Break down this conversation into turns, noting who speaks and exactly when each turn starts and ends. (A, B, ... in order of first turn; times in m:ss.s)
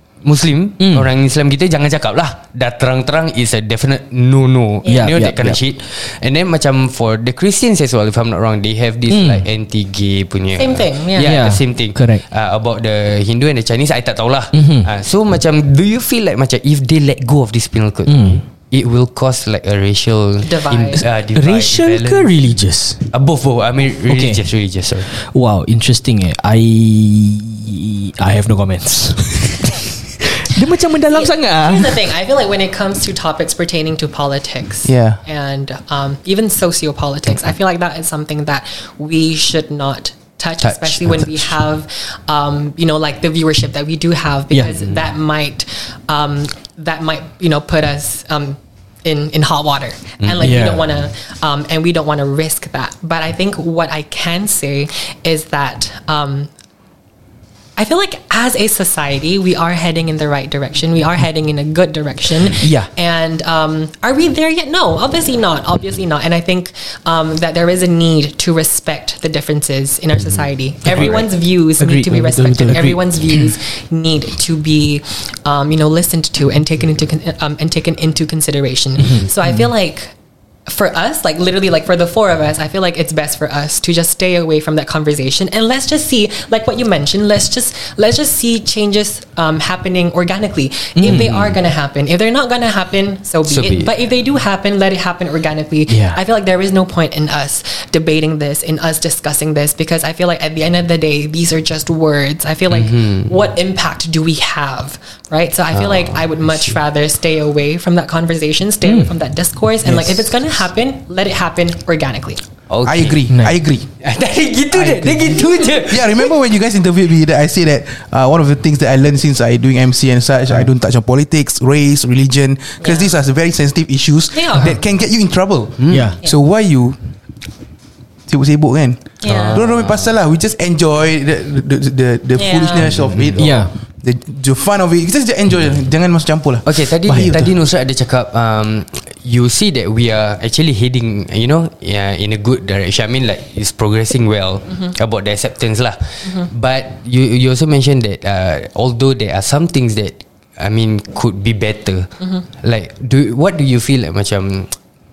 0:00.2-0:22.3 A
0:00.8-0:01.1 B
0:04.8-0:05.1 C
0:04.9-0:05.4 B
0:09.1-0:09.4 B
0:10.6-0:11.4 C
0:11.2-0:12.2 B
0:14.5-0:14.9 B
0:18.1-0:18.4 B
0:20.4-0:21.0 C
0:21.3-0:23.0 B
0:23.1-0:25.1 A
0:24.1-0:24.4 B
0:25.1-0:32.0 B
0:31.1-0:56.5 C
0:34.8-0:35.2 D
0:40.6-0:41.5 A
0:50.2-0:50.5 A
0:50.4-0:50.9 B
0:57.8-1:20.1 C
1:02.5-1:02.9 B
1:10.9-1:13.0 B
1:20.6-1:52.4 C
1:31.0-1:31.3 B
1:31.0-1:31.5 A
1:33.5-1:33.9 A
1:35.9-1:36.2 B
1:42.7-1:43.3 A
1:45.7-1:46.7 A
1:48.8-1:49.1 B
1:49.8-1:50.3 D
1:52.7-1:53.3 A
1:52.8-1:53.9 D
1:53.3-1:53.6 B
1:54.0-1:56.3 A
1:54.7-2:07.0 D
1:55.4-1:55.6 C
2:02.8-2:03.2 C
2:04.3-2:04.8 C
2:05.8-2:06.1 A
2:05.9-2:06.2 B
2:08.3-2:17.5 D
2:09.2-2:09.6 C
2:09.2-2:10.2 A
2:12.4-2:12.9 C
2:13.3-2:13.7 B
2:16.6-2:34.7 A